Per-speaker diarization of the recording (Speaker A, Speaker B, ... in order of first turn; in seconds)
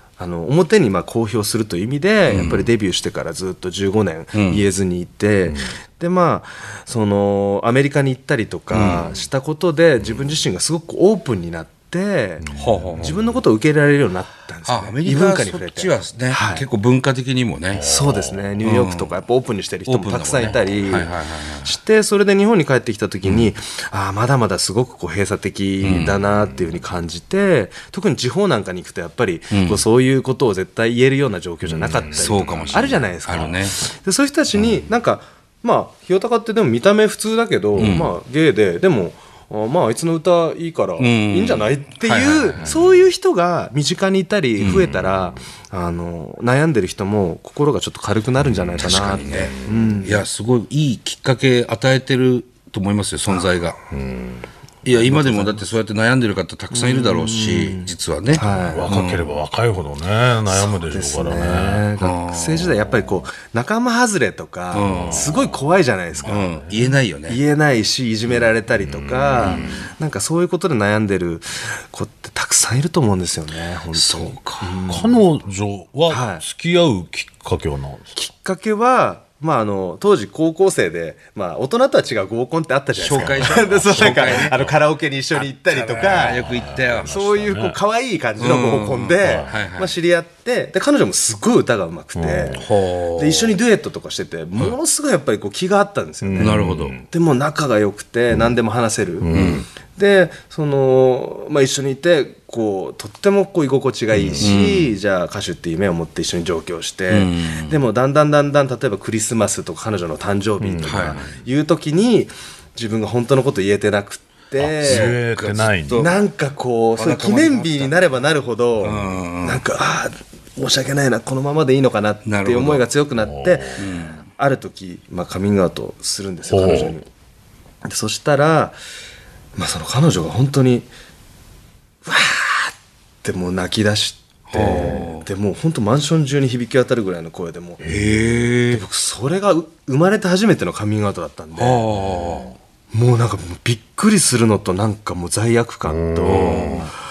Speaker A: 0.2-16.6, 17.8-21.1, 21.6-50.2, 54.9-55.6, 56.7-58.9, 60.5-66.5, 67.3-75.2, 76.1-76.4, 78.2-86.5, 87.0-92.6, 93.2-115.2, 115.9-127.0, 127.8-128.8, 129.6-130.9, 132.0-137.8, 138.7-141.8, 142.9-146.8
Speaker B: 2.3-2.7, 4.3-4.6, 8.7-9.1, 12.5-13.2, 14.7-17.9, 18.6-19.1, 19.9-21.7, 25.8-26.2, 29.5-29.8, 32.1-33.8, 37.8-38.1, 41.0-42.8, 44.6-45.0, 48.8-53.8, 54.8-59.4, 62.0-62.6, 64.7-65.3, 66.2-67.4, 69.4-69.7, 73.9-74.9, 83.0-84.6, 85.7-87.1, 88.4-90.0, 92.5-93.5, 96.4-97.0, 99.3-99.6, 104.4-104.9, 107.1-107.8, 110.8-111.2, 114.8-116.1, 117.0-118.0, 118.8-119.6, 122.2-122.8, 123.8-124.2, 134.5-135.3, 137.8-138.8, 141.6-142.5, 146.2-146.9
Speaker C: 12.4-13.2, 17.7-18.6, 31.6-33.4, 34.5-34.8, 42.6-43.0, 44.8-45.4, 48.4-50.0, 53.9-54.5, 58.4-61.9, 62.6-63.3, 64.8-66.8, 68.3-69.9, 74.8-78.1, 83.1-84.8, 86.0-87.8, 89.2-89.6, 92.2-92.6, 96.2-97.0, 99.2-99.7, 104.1-104.5, 110.6-111.4, 114.6-116.1, 123.2-123.8, 126.5-126.9, 137.8-138.2, 141.9-142.5, 145.8-146.8